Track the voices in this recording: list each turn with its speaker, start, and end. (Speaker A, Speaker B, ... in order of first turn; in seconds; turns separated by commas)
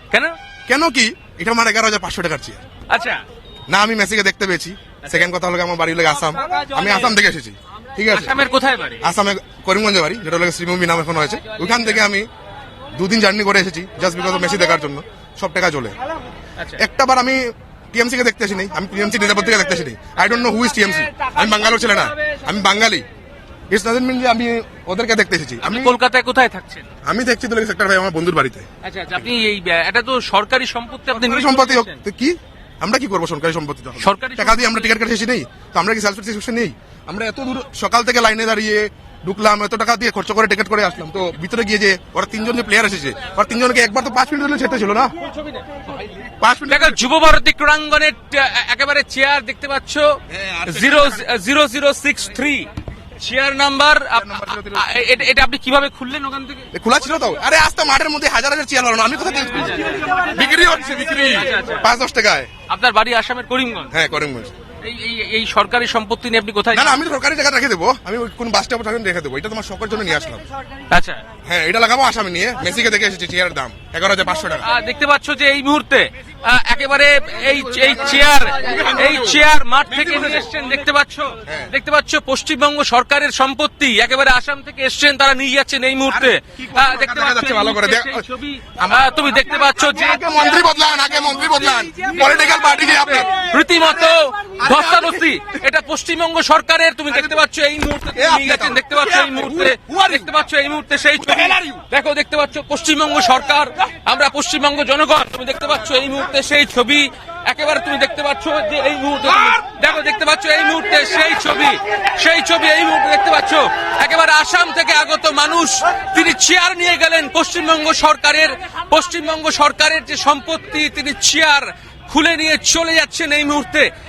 Speaker A: 0.1-0.4, Speaker B: 0.7-2.6, Speaker A: 2.9-3.2, Speaker B: 3.7-8.4, Speaker A: 8.1-9.0, Speaker B: 9.0-12.3, Speaker B: 12.9-16.0, Speaker A: 16.6-16.8, Speaker B: 16.8-23.1, Speaker B: 23.7-26.0, Speaker A: 25.6-26.9, Speaker B: 27.0-29.3, Speaker A: 28.8-32.0, Speaker B: 31.1-45.1, Speaker A: 34.0-35.0, Speaker A: 45.2-45.6, Speaker B: 46.4-47.1, Speaker A: 46.7-56.7, Speaker B: 50.3-51.2, Speaker B: 54.1-55.3, Speaker B: 56.7-62.5, Speaker A: 61.3-61.9, Speaker A: 62.7-63.9, Speaker B: 63.9-64.5, Speaker A: 64.8-67.0, Speaker B: 66.7-70.4, Speaker A: 70.9-71.2, Speaker B: 71.5-74.7, Speaker A: 74.6-90.3, Speaker B: 77.5-80.5, Speaker B: 81.5-81.7, Speaker B: 86.1-88.2, Speaker B: 88.8-95.4, Speaker A: 92.0-123.9, Speaker B: 97.1-97.4, Speaker B: 98.1-100.3, Speaker B: 101.2-101.8